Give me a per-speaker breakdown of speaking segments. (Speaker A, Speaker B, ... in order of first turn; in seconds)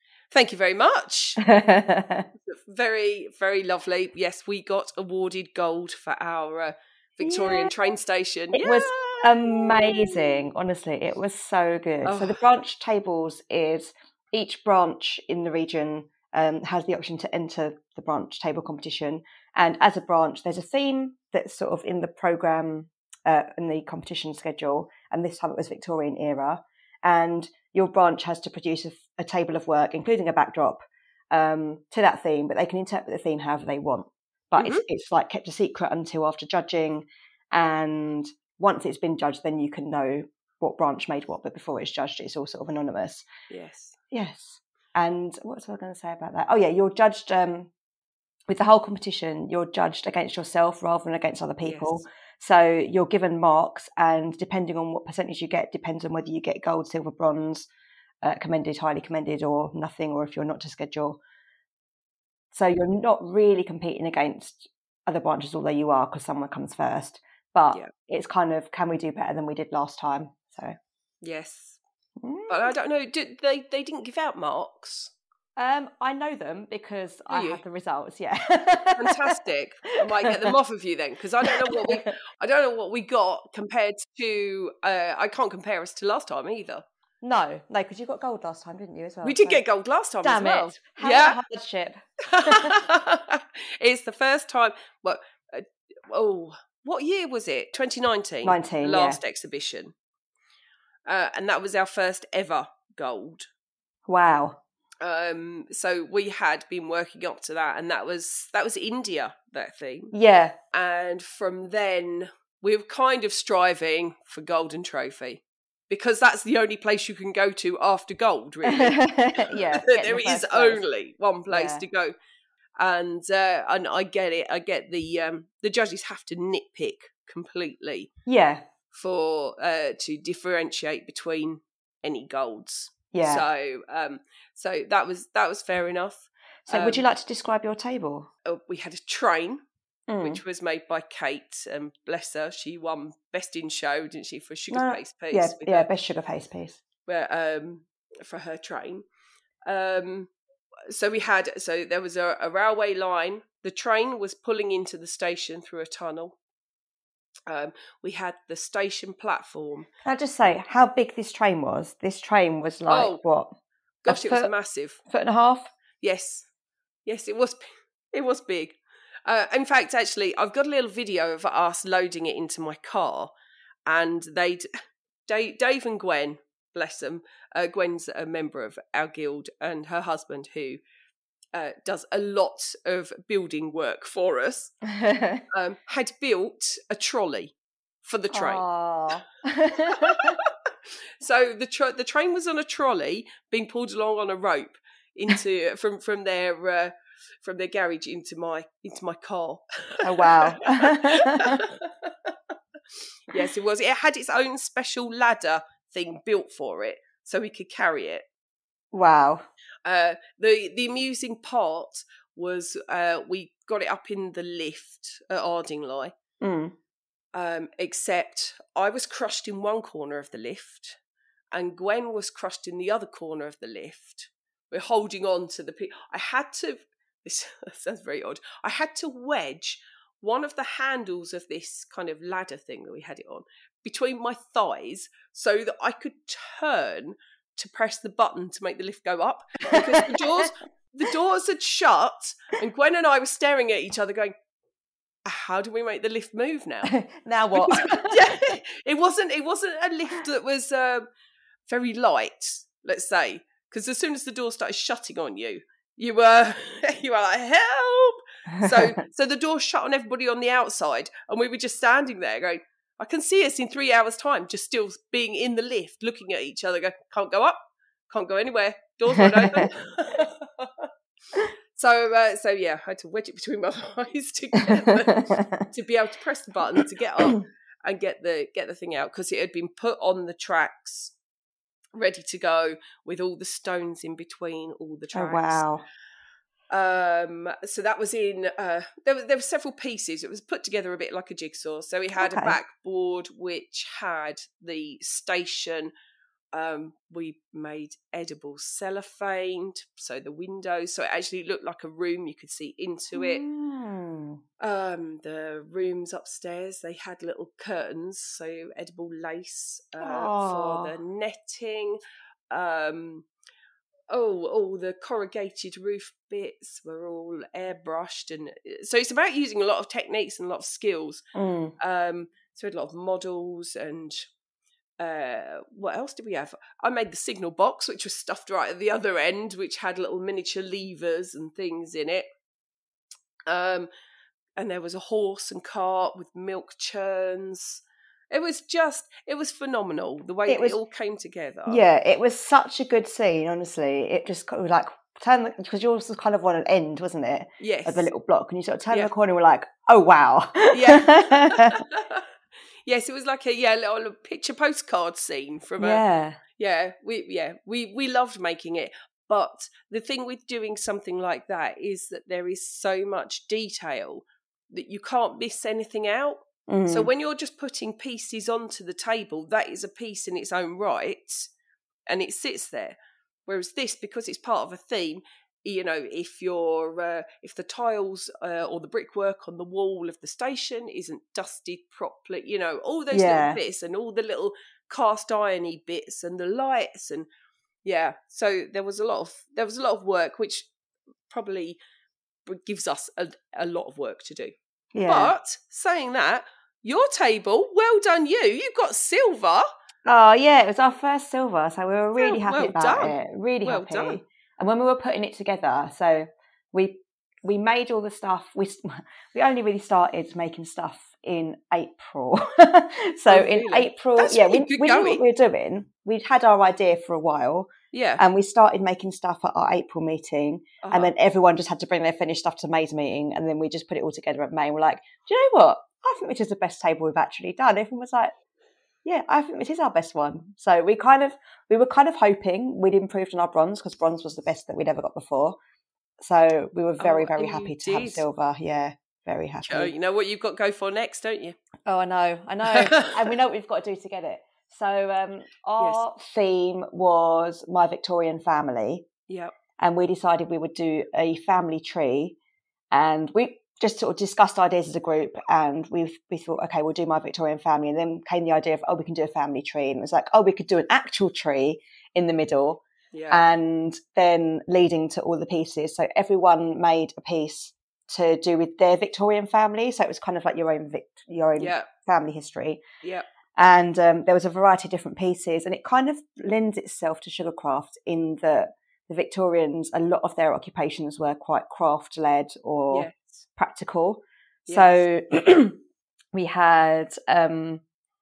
Speaker A: 0.3-1.4, 2.4-10.4, 12.1-12.4, 34.6-34.8, 43.5-44.0, 51.6-52.0, 71.2-71.8, 72.5-75.1, 77.3-77.6, 79.0-86.8, 89.2-91.4, 92.3-99.9, 101.1-103.5, 105.0-110.1, 110.7-122.1, 122.8-128.1, 128.9-137.0, 138.4-139.6, 140.2-145.9, 147.1-149.1, 149.7-150.3, 150.9-156.4, 157.5-159.9, 162.9-163.2, 164.0-165.0, 166.0-166.5, 167.1-173.3, 173.9-174.7, 175.3-180.8, 181.5-184.7, 185.5-188.6, 189.9-190.3, 191.2-202.3, 203.3-208.3, 209.8-216.1, 217.3-221.0, 221.5-244.3, 245.2-246.9, 247.5-251.1, 251.7-267.6, 268.1-270.9, 271.7-281.1, 281.9-285.6, 286.7-295.9, 296.5-303.4, 304.6-312.0, 312.5-313.3, 314.1-321.2, 321.8-324.3, 325.0-332.3, 333.5-333.9, 334.6-341.9, 347.6-348.1, 350.7-352.2, 352.9-356.0, 356.6-371.5, 372.1-387.3, 387.9-390.7, 391.3-391.8, 392.5-394.5, 395.1-399.7, 402.2-404.2, 413.3-415.2, 417.9-418.2, 420.8-421.1, 437.0-438.2, 439.6-441.6, 442.7-443.1, 463.1-463.4, 471.6-471.9, 482.9-483.4, 484.7-485.0
Speaker B: 1.4-2.3, 7.2-7.7, 8.5-30.8, 31.3-43.3, 44.1-47.7, 48.5-57.7, 58.2-61.2, 62.5-70.8, 72.2-72.7, 75.6-79.4, 80.2-80.5, 81.5-82.1, 87.2-89.6, 90.2-92.9, 98.4-99.2, 104.1-104.6, 110.1-110.6, 118.7-120.8, 121.5-121.8, 128.3-128.7, 133.1-133.4, 136.7-138.3, 140.1-140.4, 144.7-146.8, 160.0-163.5, 164.1-164.5, 165.1-165.7, 184.9-185.4, 188.3-190.4, 200.0-201.6, 208.9-209.4, 216.4-216.8, 239.7-240.5, 246.9-248.4, 258.5-259.0, 269.2-269.7, 274.9-275.6, 285.1-285.8, 292.2-292.6, 303.1-304.4, 310.0-310.9, 321.3-321.8, 340.5-340.8, 341.7-351.8, 355.8-356.4, 366.7-367.1, 383.1-383.6, 394.9-395.3, 400.1-428.3, 429.1-435.6, 436.2-439.9, 441.9-449.1, 449.8-452.4, 452.9-472.8, 473.6-485.8, 486.3-487.8